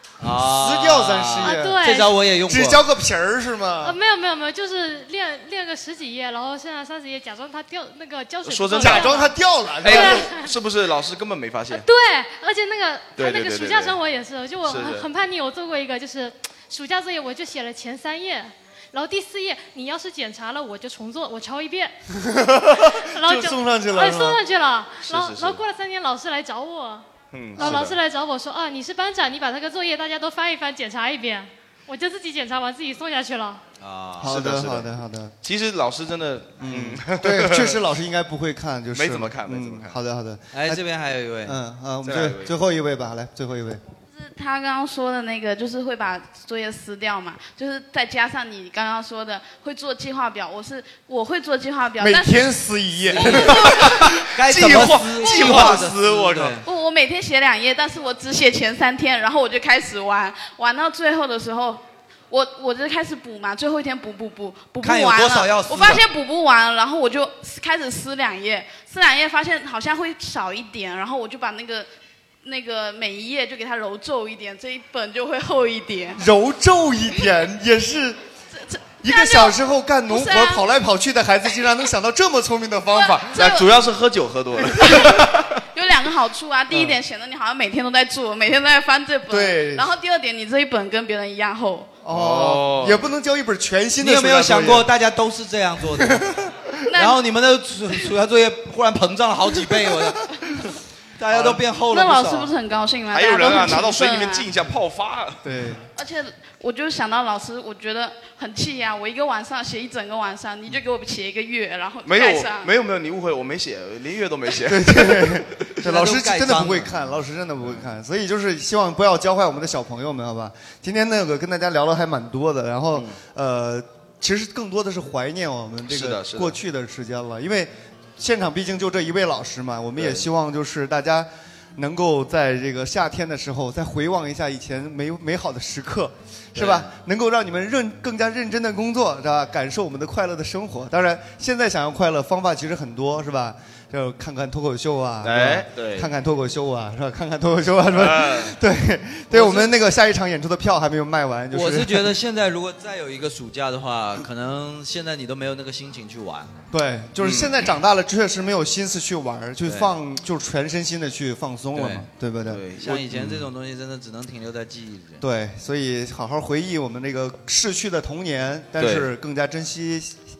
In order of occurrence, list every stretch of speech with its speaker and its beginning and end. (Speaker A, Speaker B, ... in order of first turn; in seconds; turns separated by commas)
Speaker A: 0.2-2.8, Speaker B: 0.3-1.9, Speaker C: 1.4-2.1, Speaker B: 2.4-4.0, Speaker C: 3.8-9.3, Speaker D: 8.4-9.3, Speaker B: 8.8-10.3, Speaker D: 9.8-11.8, Speaker C: 9.8-10.6, Speaker C: 11.7-21.9, Speaker D: 13.2-14.0, Speaker D: 14.6-15.1, Speaker B: 22.1-24.4, Speaker C: 22.9-33.6, Speaker D: 25.0-25.6, Speaker D: 27.3-28.0, Speaker B: 27.6-27.9, Speaker A: 33.8-34.4, Speaker B: 34.2-35.3, Speaker D: 34.2-37.8, Speaker B: 36.6-40.8, Speaker D: 38.9-40.0, Speaker A: 40.5-41.6, Speaker B: 41.4-43.8, Speaker D: 42.0-42.5, Speaker E: 44.1-53.6, Speaker B: 52.0-54.1, Speaker A: 53.1-56.6, Speaker D: 53.4-56.6, Speaker B: 54.7-55.8, Speaker E: 56.6-71.9, Speaker A: 64.8-66.0, Speaker E: 72.4-76.2, Speaker B: 76.2-78.2, Speaker E: 78.7-80.6, Speaker B: 79.0-83.6, Speaker E: 82.9-83.7, Speaker D: 83.3-85.5, Speaker E: 84.9-85.1, Speaker E: 85.7-91.9, Speaker B: 86.7-87.0, Speaker B: 89.3-89.9, Speaker B: 92.0-94.9, Speaker D: 92.1-93.1, Speaker A: 94.0-96.3, Speaker B: 96.0-96.5, Speaker E: 96.9-97.2, Speaker A: 96.9-100.2, Speaker A: 101.2-102.5, Speaker E: 101.9-104.5, Speaker D: 103.1-105.4, Speaker B: 105.4-105.9, Speaker E: 106.0-112.7, Speaker D: 112.0-115.4, Speaker B: 114.7-152.1, Speaker A: 115.8-117.2, Speaker D: 125.9-126.6, Speaker A: 136.6-136.9, Speaker D: 145.2-146.1, Speaker D: 147.9-148.6, Speaker A: 149.3-149.7, Speaker A: 151.5-156.6, Speaker B: 156.7-163.4, Speaker D: 157.2-157.6, Speaker A: 159.6-159.9, Speaker A: 161.7-162.1, Speaker D: 162.5-163.0, Speaker A: 162.8-165.2, Speaker B: 165.2-170.2, Speaker D: 168.8-169.1